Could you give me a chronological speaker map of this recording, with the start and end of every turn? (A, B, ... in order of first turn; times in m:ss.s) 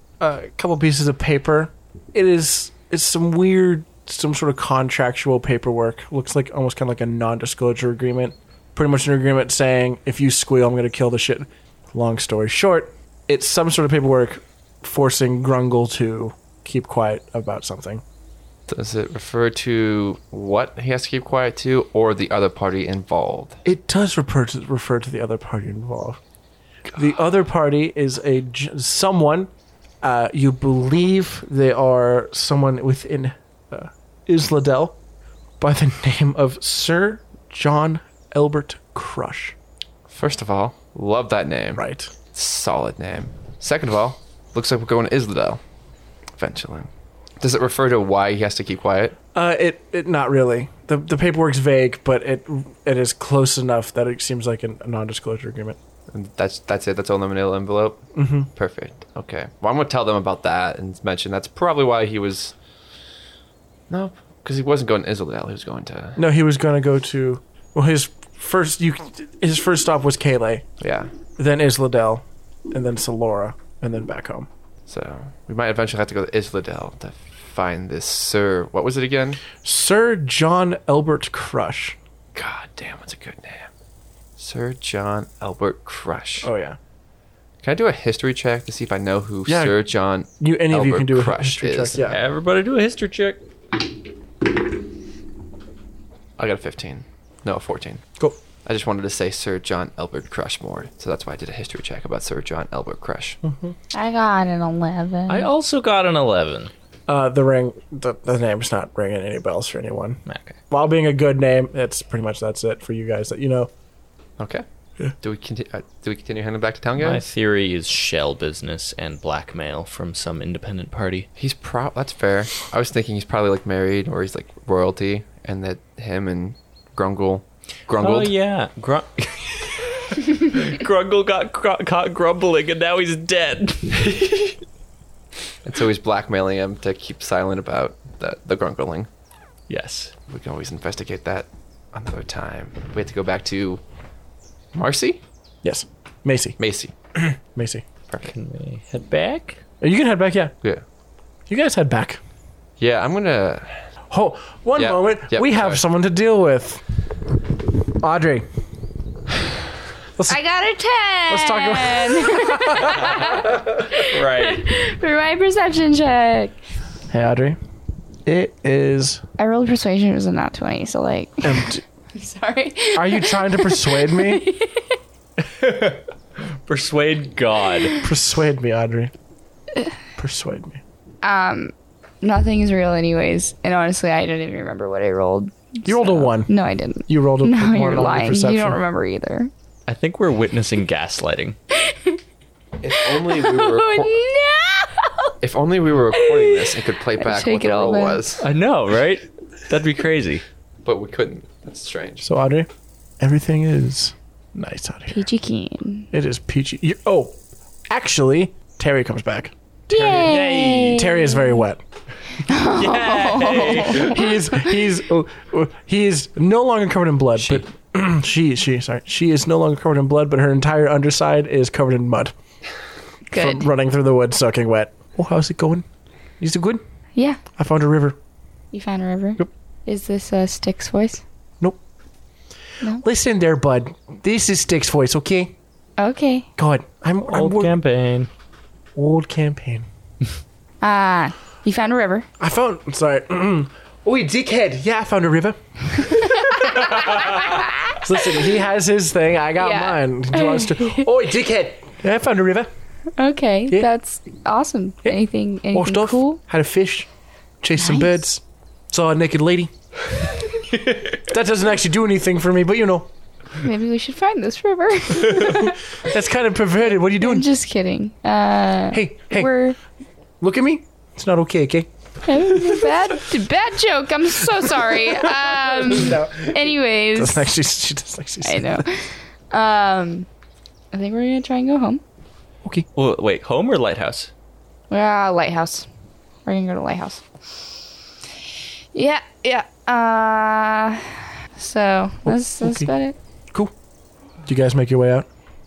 0:00.2-0:18.0 A
0:18.7-0:23.6 B
0:23.6-0:26.2 A
0:26.9-0:29.5 A
0:30.0-0:35.0 A
0:35.6-0:39.6 A
0:40.1-0:45.6 B
0:41.8-0:42.1 A
0:46.4-0:49.2 B
0:49.3-0:55.8 A
0:56.1-1:02.6 B
0:58.1-0:58.5 A
1:03.9-1:06.2 B
1:06.2-1:10.7 A
1:10.8-1:11.1 B
1:11.4-1:14.5 A
1:14.9-1:19.4 B
1:19.6-1:22.0 A
1:22.3-1:23.7 B
1:24.4-1:26.5 B
1:26.4-1:26.8 A
1:27.6-1:32.0 B
1:29.5-1:29.8 A
1:30.4-1:32.2 A
1:32.1-1:33.4 C
1:36.4-1:38.0 B
1:38.6-1:43.4 B
1:43.4-1:43.7 A
1:43.9-1:45.5 D
1:45.3-1:46.7 C
1:47.1-1:53.7 A
1:50.3-1:50.6 C
1:54.4-1:54.6 B
1:55.2-1:57.2 B
1:57.0-2:01.3 C
2:01.4-2:08.3 B
2:08.0-2:14.2 C
2:15.6-2:19.1 B
2:19.7-2:20.1 C
2:20.3-2:23.8 B
2:24.7-2:25.2 B
2:25.6-2:26.6 A
2:26.6-2:26.9 B
2:27.1-2:27.8 A
2:28.1-2:28.3 B
2:28.2-2:29.6 C
2:29.8-2:30.5 A
2:31.5-2:32.2 A
2:32.8-2:33.8 B
2:34.1-2:36.8 A
2:34.8-2:35.8 B
2:38.0-2:38.4 A
2:40.3-2:46.6 D
2:41.3-2:43.4 A
2:43.9-2:44.7 C
2:47.1-2:47.6 A
2:48.3-2:49.2 A
2:49.4-2:55.0 D
2:51.4-2:51.8 A
2:53.0-2:54.5 A
2:55.4-2:56.0 C
2:56.7-2:58.0 C
2:57.8-2:58.0 D
2:58.0-2:59.1 A
3:00.2-3:00.8 A
3:01.2-3:09.5 D
3:05.9-3:06.5 A
3:07.1-3:08.8 A
3:09.9-3:11.6 C
3:11.8-3:12.2 D
3:12.8-3:14.2 B
3:13.0-3:15.3 D
3:15.4-3:18.5 B
3:16.1-3:18.2 D
3:18.4-3:20.4 C
3:20.8-3:22.3 B
3:22.2-3:22.7 A
3:23.2-3:25.3 A
3:25.1-3:26.1 D
3:26.1-3:27.4 A
3:27.9-3:29.5 A
3:29.9-3:31.0 C
3:29.9-3:31.6 D
3:30.6-3:31.8 A
3:32.4-3:34.7 D
3:32.5-3:34.3 C
3:33.9-3:42.3 A
3:43.3-3:43.7 D
3:43.3-3:45.9 A
3:46.4-3:46.8 A
3:47.1-3:47.4 D
3:47.6-3:48.2 A
3:48.7-3:51.2 D
3:53.0-3:55.6 A
3:56.0-3:56.5 D
3:56.6-3:57.8 A
3:57.3-3:58.3 C
3:59.0-3:59.9 A
4:00.8-4:02.3 D
4:02.4-4:12.7 A
4:06.0-4:08.6 D
4:09.6-4:11.1 D
4:13.2-4:16.4 D
4:15.7-4:17.1 A
4:17.6-4:19.7 A
4:17.8-4:18.1 D
4:21.2-4:23.1 A
4:23.6-4:26.0 D
4:25.5-4:27.4 A
4:26.9-4:29.8 D
4:28.9-4:29.5 A
4:30.4-4:31.9 A
4:32.2-4:37.5 D
4:32.5-4:32.9 A
4:34.8-4:36.6 A
4:37.1-4:38.9 A
4:38.4-4:40.3 D
4:40.9-4:42.0 D
4:43.0-4:44.3 C
4:44.9-4:45.9 D
4:46.4-4:47.2 D
4:48.9-4:53.2 D
4:52.3-4:52.9 A
4:54.4-4:55.3 A